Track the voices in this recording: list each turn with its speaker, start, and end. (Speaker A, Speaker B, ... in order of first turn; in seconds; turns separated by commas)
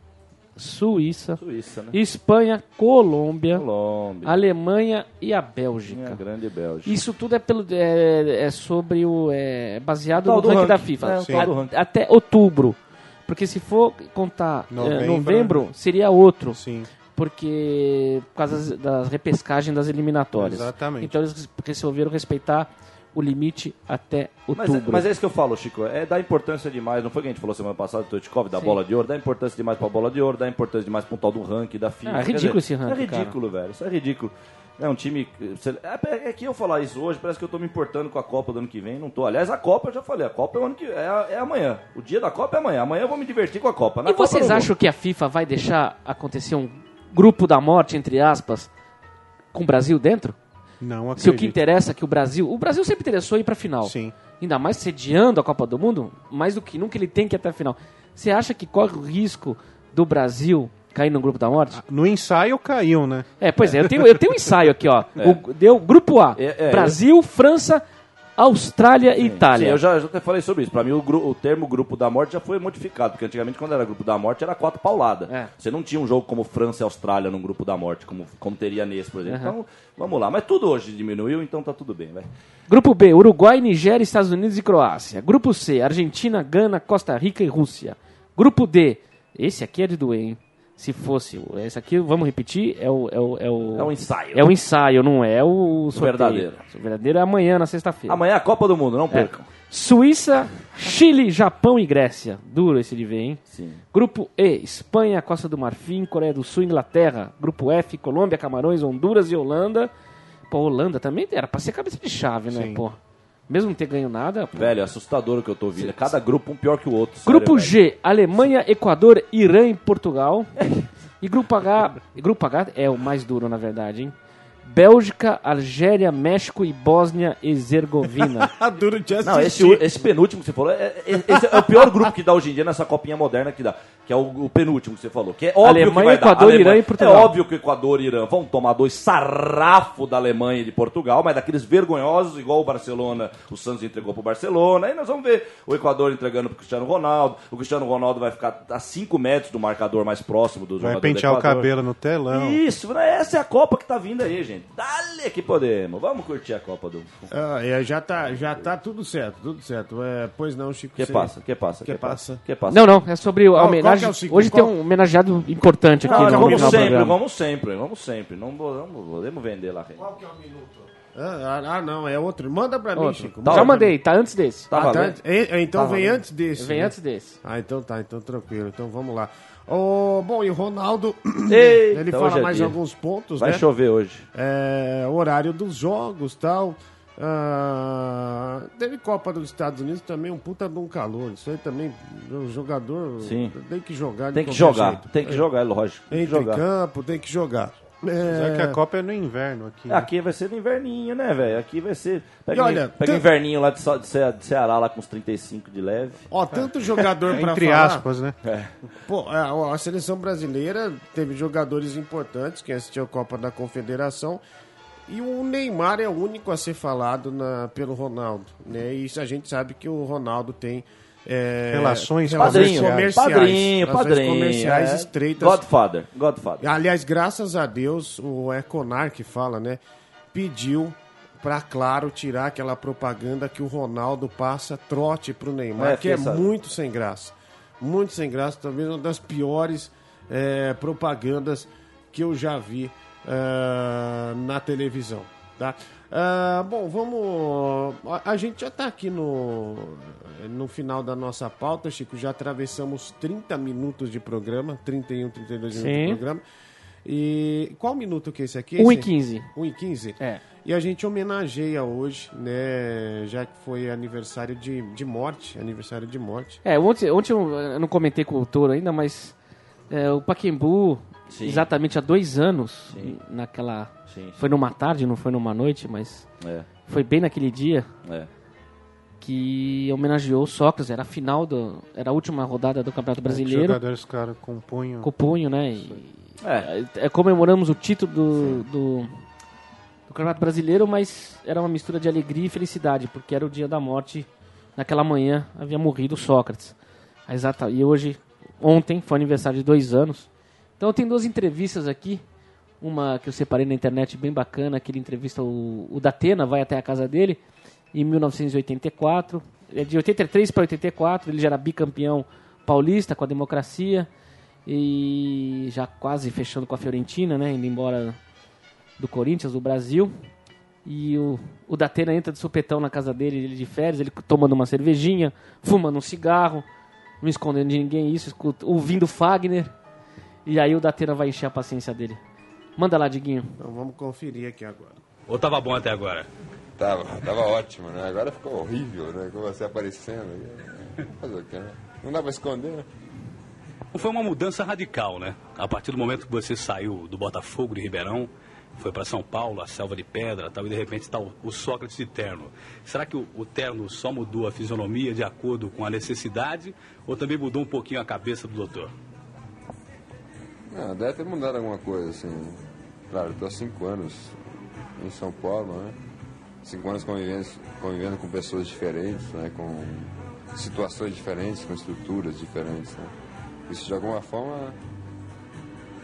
Speaker A: 0.6-1.4, Speaker B: 1.4-2.0, Speaker A: 1.9-3.6, Speaker B: 3.5-4.3, Speaker A: 4.2-6.2, Speaker B: 5.9-6.9, Speaker A: 6.8-16.6, Speaker B: 10.2-11.7, Speaker C: 14.7-15.7, Speaker C: 16.5-16.9, Speaker A: 17.1-25.0, Speaker C: 20.4-21.1, Speaker B: 24.6-44.7, Speaker A: 32.0-33.3, Speaker A: 44.0-48.7, Speaker A: 49.5-50.4, Speaker C: 50.8-51.6, Speaker A: 51.1-61.8, Speaker C: 53.8-54.1, Speaker C: 61.7-63.2, Speaker A: 63.4-67.8, Speaker B: 66.3-67.0, Speaker A: 68.4-69.8, Speaker B: 69.2-82.3, Speaker A: 79.3-79.5, Speaker A: 82.7-98.2, Speaker B: 93.7-94.5, Speaker B: 95.9-96.6, Speaker B: 98.1-99.5, Speaker A: 99.1-103.4, Speaker B: 103.5-103.8, Speaker A: 103.9-109.9, Speaker A: 110.5-113.0, Speaker C: 112.5-112.8, Speaker A: 113.5-114.7, Speaker B: 114.5-117.7, Speaker A: 115.8-116.1, Speaker A: 117.2-120.5, Speaker B: 120.6-120.9, Speaker A: 121.2-124.1, Speaker A: 124.6-128.5, Speaker D: 128.2-129.9, Speaker B: 129.2-151.7, Speaker D: 131.1-132.1, Speaker A: 135.6-137.3, Speaker C: 150.8-152.6, Speaker B: 152.3-157.3, Speaker D: 157.3-161.3, Speaker B: 160.9-162.8, Speaker D: 161.8-162.4, Speaker A: 162.7-167.2, Speaker D: 163.5-164.7, Speaker B: 166.0-170.0, Speaker D: 166.1-167.0, Speaker D: 170.0-173.9, Speaker A: 172.9-174.7, Speaker B: 173.4-173.8, Speaker B: 174.7-175.2, Speaker D: 174.7-183.6, Speaker B: 175.7-176.2, Speaker A: 176.5-177.4, Speaker B: 181.5-182.8, Speaker B: 183.4-184.2, Speaker D: 184.3-195.4, Speaker B: 193.2-193.6, Speaker B: 194.3-196.6, Speaker D: 196.1-198.8, Speaker C: 198.3-200.1, Speaker B: 199.9-206.2, Speaker D: 202.5-203.2, Speaker D: 206.3-208.0, Speaker C: 207.3-208.4, Speaker B: 208.4-208.7, Speaker D: 209.1-214.4, Speaker D: 215.1-225.6, Speaker C: 221.7-223.2, Speaker B: 222.4-226.6, Speaker D: 226.6-229.8, Speaker D: 230.3-256.4, Speaker B: 235.8-236.5, Speaker A: 255.7-256.2, Speaker D: 257.0-266.6, Speaker A: 258.8-259.5, Speaker A: 266.6-269.4, Speaker A: 269.9-276.3, Speaker B: 271.3-271.6, Speaker B: 272.9-273.1, Speaker B: 274.1-274.5, Speaker B: 276.4-276.6, Speaker A: 276.9-277.9, Speaker A: 279.2-283.8, Speaker C: 283.2-285.1, Speaker A: 285.0-289.1, Speaker B: 286.4-286.7, Speaker A: 290.1-296.8, Speaker A: 297.3-302.2, Speaker A: 302.8-307.4, Speaker A: 307.9-314.1, Speaker A: 314.6-318.2, Speaker A: 319.0-320.1, Speaker A: 320.8-326.6, Speaker A: 327.2-329.7, Speaker A: 330.4-332.2, Speaker A: 332.8-333.5, Speaker D: 333.6-335.0, Speaker E: 335.3-336.3, Speaker F: 336.8-342.9, Speaker E: 343.9-358.9, Speaker F: 360.7-364.4, Speaker F: 365.0-366.0, Speaker F: 366.6-373.1, Speaker F: 373.7-374.8